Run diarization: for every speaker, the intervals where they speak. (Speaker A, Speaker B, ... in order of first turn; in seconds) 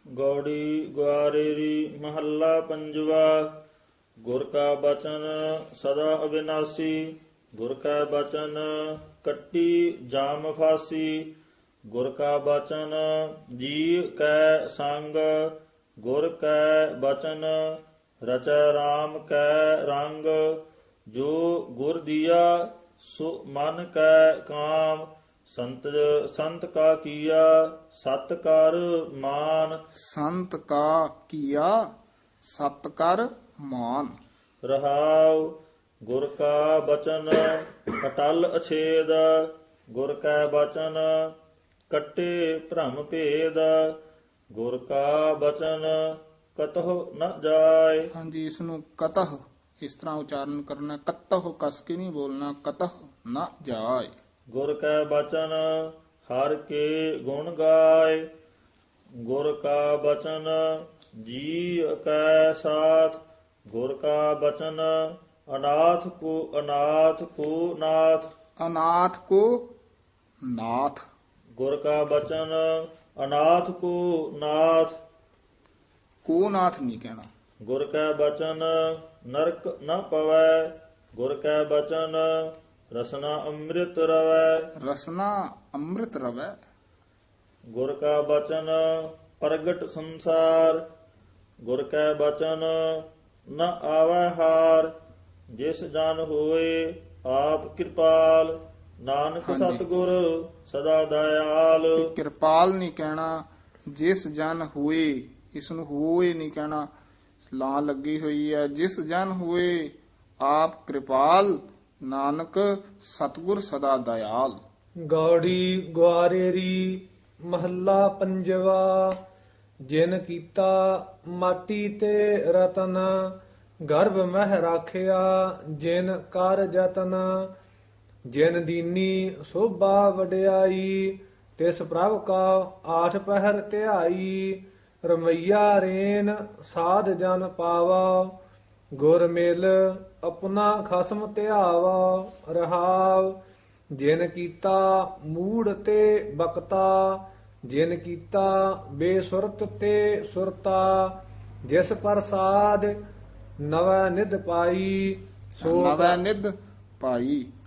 Speaker A: 0.1-3.6, 4.2-11.3, 11.9-17.6, 18.2-29.8, 34.6-35.5, 36.0-41.1, 41.9-44.0, 44.5-48.1, 54.5-58.3, 59.2-68.3, 71.6-75.0, 77.6-82.3, 82.9-84.6, 87.7-90.8, 91.6-94.9, 95.5-102.1
Speaker B: 29.9-31.8, 32.4-34.1, 48.1-54.1, 68.6-69.7, 70.4-71.0, 76.2-77.3, 84.8-86.5, 99.5-99.8, 102.0-106.8, 107.5-114.6, 155.6-157.5
Speaker C: 115.0-119.2, 119.8-127.5, 128.3-138.3, 138.9-143.4, 143.9-153.0, 153.6-156.2